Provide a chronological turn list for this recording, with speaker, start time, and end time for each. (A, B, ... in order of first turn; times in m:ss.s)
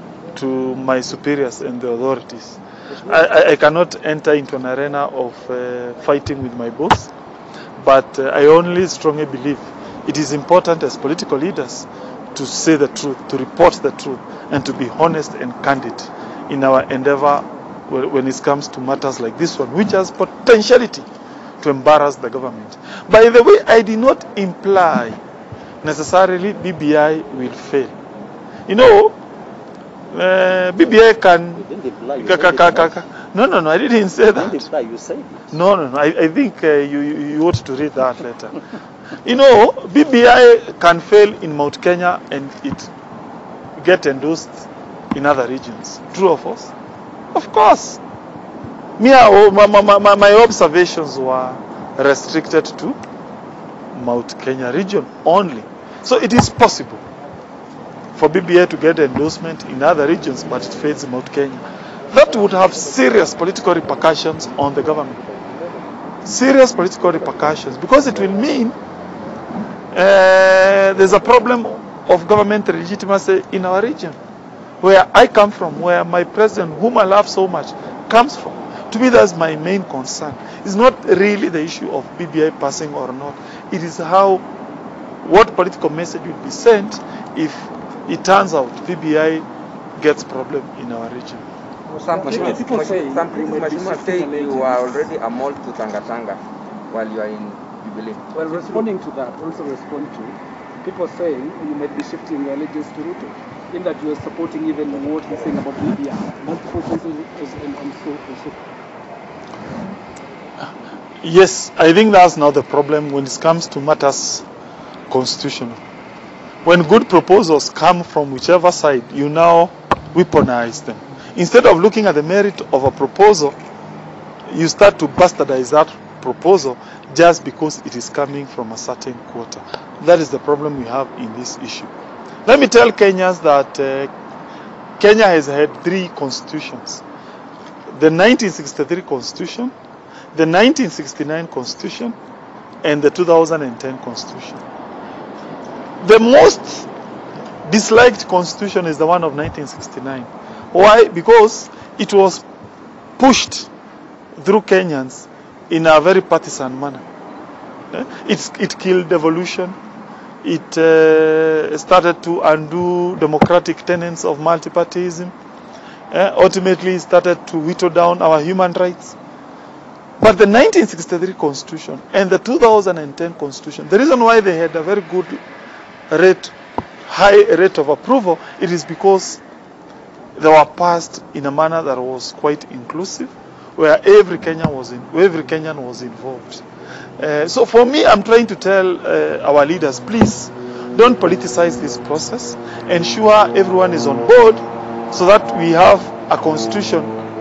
0:00.3-0:07.1 A
0:07.8-0:21.1 A
0:21.6-0:25.2 A
0:25.8-0:28.0 A
0:28.7-0:29.2 A
0:30.1-0:31.6 A
0:31.6-0:33.0 B
0:32.2-0:34.7 A
0:34.3-0:35.5 B
0:35.5-0:38.6 A
0:39.2-0:42.9 A
0:43.8-0:46.7 A
0:47.3-0:48.0 A
0:49.0-0:53.0 A
0:53.9-0:57.0 A
0:58.1-1:05.2 A
1:06.2-1:08.8 A
1:09.9-1:14.2 A
1:14.8-1:24.4 A
1:25.2-1:29.4 A
1:30.0-1:31.4 A
1:31.9-1:35.1 C
1:32.0-1:38.3 D
1:38.3-1:48.6 C
1:51.2-1:54.4 A
1:55.1-1:55.8 A
1:56.6-2:03.5 A
2:04.5-2:11.9 A
2:12.4-2:14.1 A
2:15.0-2:17.0 A
2:17.9-2:19.7 A
2:20.3-2:22.1 A
2:22.8-2:24.6 A
2:26.0-2:26.9 A
2:27.6-2:32.4 A
2:33.2-2:33.7 A
2:34.4-2:37.0 A
2:37.9-2:39.8 A
2:40.4-2:45.3 A
2:46.1-2:49.2 A
2:50.2-2:55.4 A
2:56.1-2:56.5 A
2:57.1-2:59.4 A
3:00.4-3:06.6 A
3:07.2-3:17.2 A